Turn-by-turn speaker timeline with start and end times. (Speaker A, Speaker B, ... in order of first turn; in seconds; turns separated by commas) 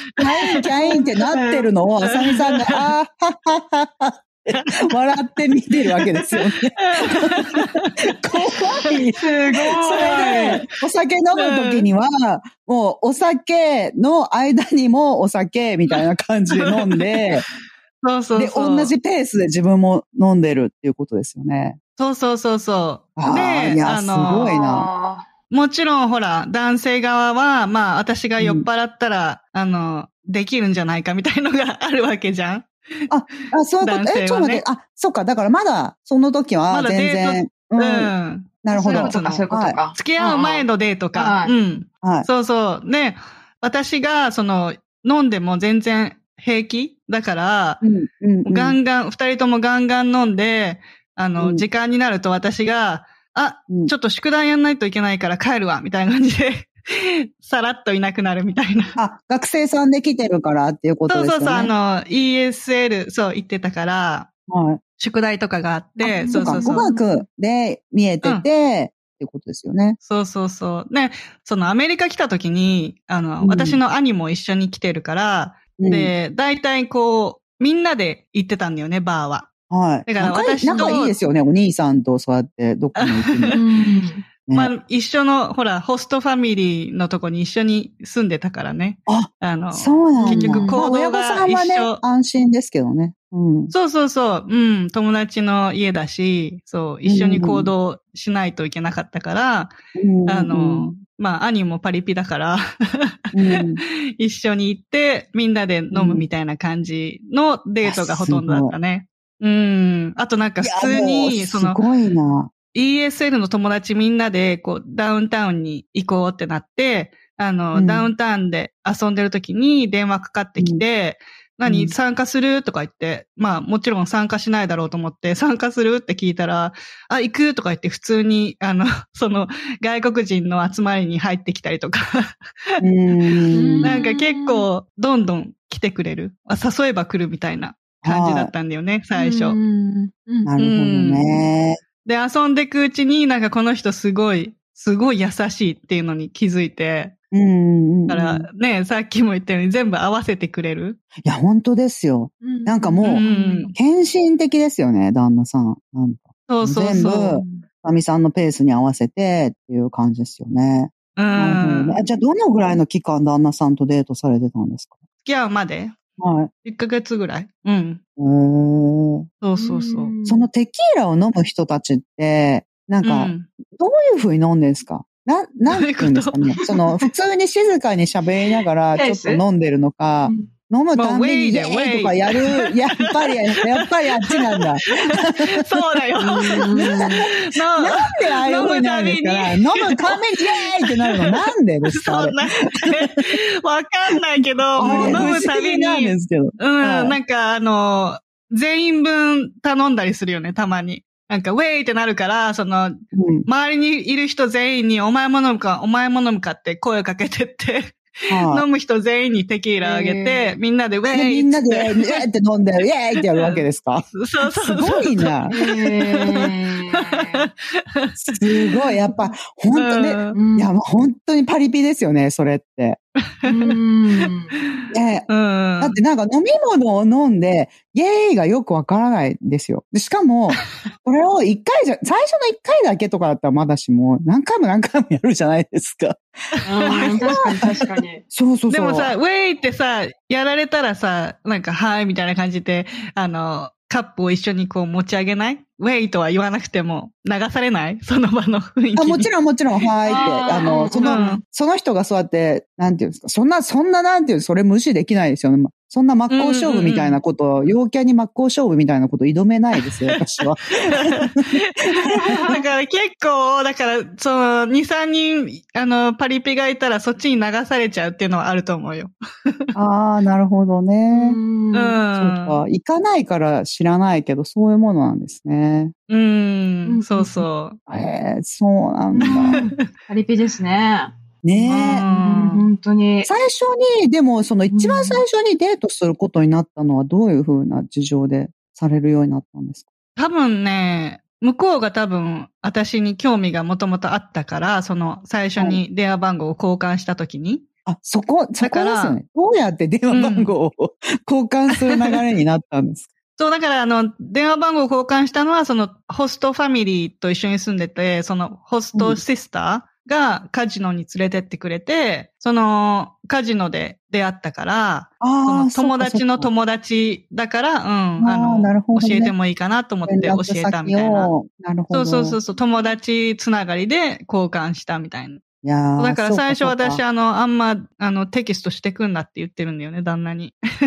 Speaker A: 0.2-7.4, Speaker B: 0.8-1.7, Speaker C: 2.3-2.8, Speaker C: 4.5-4.8, Speaker C: 6.8-7.9, Speaker A: 8.2-17.5, Speaker B: 9.2-10.7, Speaker C: 10.0-10.7, Speaker C: 11.4-11.9, Speaker C: 16.5-17.1, Speaker C: 18.0-18.9, Speaker A: 18.4-21.8, Speaker C: 22.0-24.5, Speaker A: 23.2-24.9, Speaker B: 24.2-25.3, Speaker C: 25.5-32.7, Speaker A: 28.4-28.7, Speaker A: 33.1-39.8, Speaker C: 33.8-34.6, Speaker C: 36.7-47.8, Speaker B: 38.7-41.5, Speaker A: 42.0-42.3, Speaker A: 47.8-48.8, Speaker C: 48.5-59.0, Speaker A: 51.4-51.6, Speaker A: 59.0-61.7, Speaker C: 61.1-64.3, Speaker A: 64.5-64.8, Speaker C: 65.0-66.9, Speaker B: 66.0-67.0, Speaker A: 66.3-70.0, Speaker C: 70.0-79.5, Speaker A: 73.4-73.8, Speaker A: 75.8-76.1, Speaker A: 79.7-83.6, Speaker C: 80.1-81.2, Speaker B: 80.7-81.0, Speaker C: 83.0-83.6, Speaker B: 83.5-84.2, Speaker A: 84.5-84.7, Speaker C: 84.5-92.0, Speaker A: 89.1-93.7, Speaker B: 90.2-90.8, Speaker C: 93.7-99.8, Speaker A: 97.0-97.7, Speaker A: 100.0-100.9, Speaker C: 100.3-103.3, Speaker A: 103.3-103.8, Speaker C: 104.2-111.8, Speaker A: 105.9-106.2, Speaker A: 107.8-108.7, Speaker A: 110.6-112.5, Speaker C: 112.7-132.8, Speaker A: 117.7-118.1, Speaker A: 120.6-120.8, Speaker A: 121.7-121.9, Speaker A: 132.8-134.0, Speaker B: 133.5-134.7, Speaker C: 133.8-139.6, Speaker A: 138.0-138.5, Speaker B: 139.2-140.5, Speaker A: 140.4-141.8, Speaker C: 140.6-141.4, Speaker C: 142.0-147.2, Speaker A: 147.3-148.5, Speaker C: 148.1-151.0, Speaker A: 151.2-164.9, Speaker B: 152.4-153.8, Speaker C: 153.1-153.7, Speaker C: 156.5-157.4, Speaker B: 157.0-157.7, Speaker C: 161.2-162.0, Speaker C: 165.2-166.0, Speaker A: 166.2-166.5, Speaker C: 166.6-168.0, Speaker A: 168.2-169.3, Speaker C: 169.4-170.1, Speaker B: 169.6-170.4, Speaker A: 170.2-185.6, Speaker C: 173.0-173.5, Speaker C: 175.7-176.6, Speaker B: 178.9-179.4, Speaker C: 181.0-182.7, Speaker C: 184.3-212.2, Speaker B: 186.2-187.2, Speaker A: 186.7-193.2, Speaker A: 194.8-197.2, Speaker B: 194.8-195.4, Speaker A: 203.1-203.5, Speaker A: 208.3-208.7, Speaker B: 209.8-210.6, Speaker A: 211.1-215.6, Speaker C: 213.3-218.2, Speaker B: 215.5-217.4, Speaker A: 218.2-223.0, Speaker C: 219.7-220.4, Speaker B: 220.3-220.7, Speaker C: 223.4-223.8, Speaker B: 223.4-224.6, Speaker C: 224.7-226.0, Speaker A: 224.9-236.2, Speaker B: 236.7-238.2, Speaker A: 236.9-237.7, Speaker C: 236.9-237.4, Speaker A: 238.3-239.1, Speaker C: 238.7-249.3, Speaker A: 249.0-261.5, Speaker B: 250.1-251.4, Speaker C: 250.1-250.4, Speaker C: 251.0-251.4, Speaker C: 256.3-257.2, Speaker C: 260.8-269.7, Speaker B: 262.1-262.6, Speaker A: 269.8-271.4, Speaker B: 271.1-272.0, Speaker C: 271.7-272.6, Speaker A: 272.2-275.9, Speaker C: 276.1-277.8, Speaker B: 276.9-277.5, Speaker A: 277.9-279.7, Speaker B: 279.2-283.3, Speaker A: 281.4-282.1, Speaker C: 281.7-282.6, Speaker A: 283.3-289.9, Speaker B: 284.7-285.2, Speaker C: 290.2-297.6, Speaker A: 295.6-295.8, Speaker A: 297.9-303.1, Speaker C: 298.6-299.2, Speaker C: 300.1-300.5, Speaker C: 301.7-302.2, Speaker C: 303.4-321.3, Speaker A: 308.9-309.2, Speaker A: 315.2-316.5, Speaker A: 318.2-319.4, Speaker A: 320.1-322.4, Speaker C: 321.9-325.4, Speaker A: 325.6-327.0, Speaker C: 326.0-330.6